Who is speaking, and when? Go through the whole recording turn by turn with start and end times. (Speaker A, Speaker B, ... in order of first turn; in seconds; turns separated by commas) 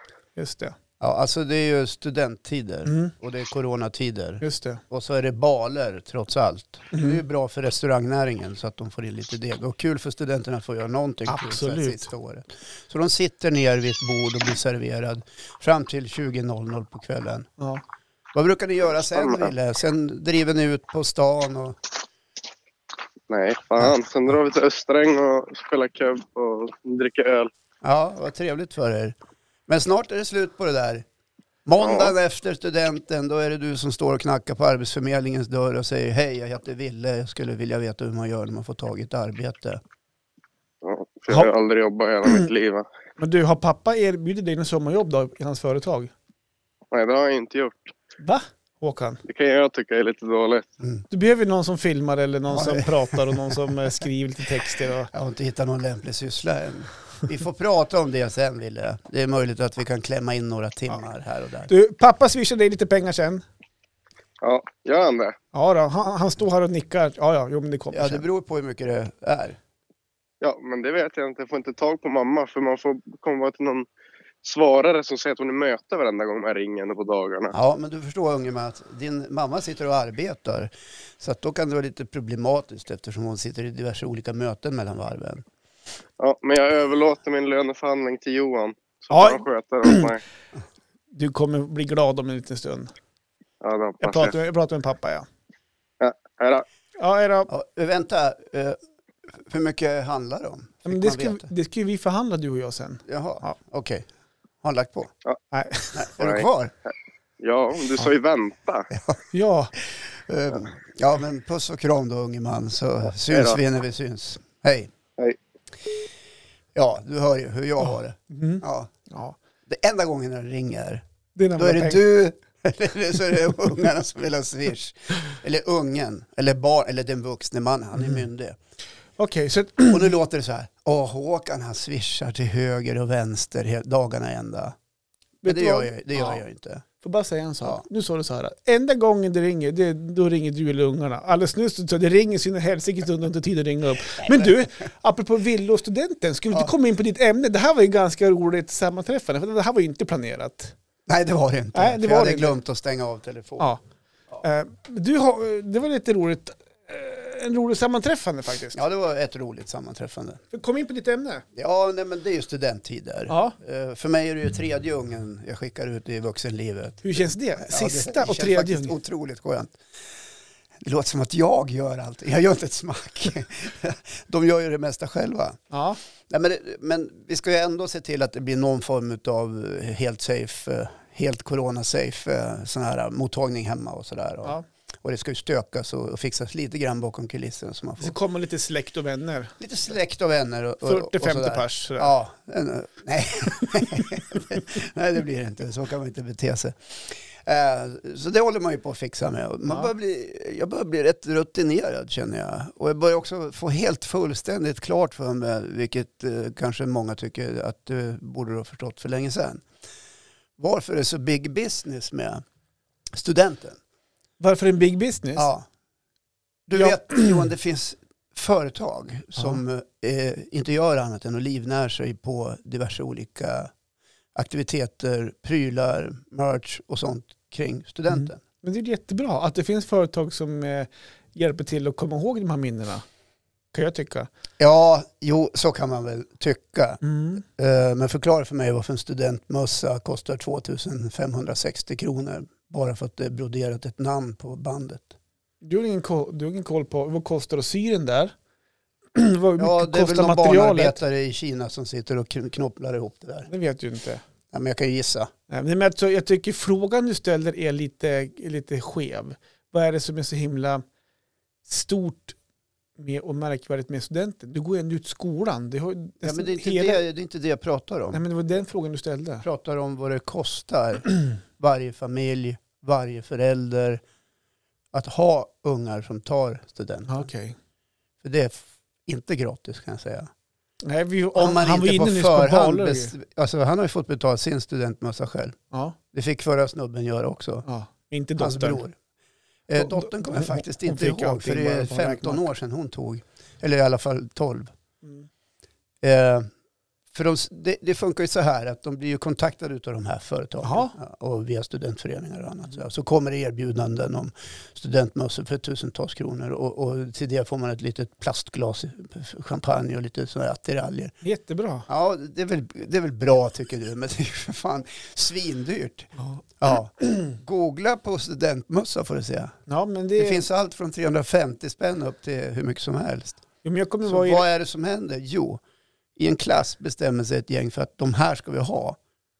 Speaker A: 0.3-0.8, Speaker B: 1.0-17.5, Speaker A: 2.9-3.1, Speaker A: 4.4-4.8, Speaker A: 6.9-7.2, Speaker A: 11.3-12.1, Speaker B: 18.3-21.8, Speaker C: 19.2-19.5, Speaker C: 23.3-27.5, Speaker B: 27.8-29.1, Speaker B: 29.7-31.0, Speaker B: 31.6-39.8, Speaker C: 31.8-32.1, Speaker C: 40.8-42.9, Speaker A: 43.2-46.1, Speaker C: 46.9-47.9, Speaker A: 48.2-49.2, Speaker C: 49.2-50.7, Speaker A: 51.1-55.1, Speaker B: 52.5-53.6, Speaker B: 55.1-61.7, Speaker A: 61.7-63.4, Speaker C: 64.4-65.4, Speaker A: 65.5-68.2, Speaker B: 67.9-69.6, Speaker C: 70.4-73.9, Speaker C: 74.4-77.5, Speaker B: 77.5-85.5, Speaker C: 86.2-90.2, Speaker A: 89.1-90.1, Speaker A: 91.1-92.9, Speaker C: 93.6-94.4, Speaker A: 94.0-95.3, Speaker C: 96.0-96.7, Speaker A: 97.0-97.5, Speaker B: 97.5-98.8, Speaker B: 99.3-101.5, Speaker A: 100.8-103.5, Speaker B: 103.0-104.0, Speaker B: 104.6-105.1, Speaker A: 105.5-106.0, Speaker B: 105.9-106.7, Speaker C: 106.2-106.5, Speaker C: 107.4-108.9, Speaker B: 108.9-109.2, Speaker A: 109.3-109.7, Speaker B: 109.9-114.9, Speaker C: 113.3-113.6, Speaker B: 116.7-118.9, Speaker A: 117.8-119.4, Speaker B: 119.7-121.0, Speaker A: 121.3-122.0, Speaker B: 121.6-128.6, Speaker A: 128.0-128.2, Speaker A: 129.2-130.1, Speaker B: 129.9-134.8, Speaker A: 135.4-136.4, Speaker B: 135.4-136.8, Speaker A: 137.0-150.7, Speaker B: 144.2-144.5, Speaker B: 151.1-153.7, Speaker A: 151.7-152.6, Speaker A: 154.4-158.8, Speaker B: 158.7-160.4, Speaker A: 160.5-161.4, Speaker B: 161.5-169.8, Speaker A: 163.3-163.5, Speaker A: 167.0-168.9, Speaker B: 170.8-175.6, Speaker A: 175.7-176.0, Speaker B: 176.3-188.1, Speaker A: 188.0-189.6, Speaker B: 189.6-209.6, Speaker A: 190.8-192.1, Speaker B: 210.6-212.4, Speaker B: 213.1-213.8, Speaker A: 214.4-215.5, Speaker B: 215.3-215.7, Speaker B: 216.7-223.7, Speaker A: 216.8-217.5, Speaker B: 224.3-228.4, Speaker A: 228.1-233.0, Speaker A: 233.7-234.3, Speaker B: 234.6-245.1, Speaker A: 237.0-237.4, Speaker A: 245.6-248.3, Speaker A: 249.1-251.0, Speaker B: 249.6-253.5, Speaker A: 253.5-254.2, Speaker B: 254.5-255.3, Speaker A: 255.5-260.8, Speaker A: 261.6-262.4, Speaker A: 263.0-267.0, Speaker B: 266.2-268.2, Speaker A: 268.1-269.4, Speaker B: 269.4-274.0, Speaker B: 274.9-277.2, Speaker A: 277.1-277.6, Speaker B: 278.2-280.3, Speaker A: 280.8-283.1, Speaker B: 281.3-285.6, Speaker B: 286.1-287.6, Speaker A: 287.6-288.8, Speaker B: 288.4-288.9, Speaker B: 289.7-294.7, Speaker A: 289.8-292.5, Speaker B: 296.0-296.5, Speaker B: 297.1-311.1, Speaker A: 300.6-300.9, Speaker A: 311.2-311.9, Speaker B: 311.9-319.5, Speaker A: 316.2-316.4, Speaker A: 319.7-320.4, Speaker B: 320.2-323.4, Speaker A: 323.6-324.4, Speaker B: 324.1-325.6, Speaker B: 326.1-329.0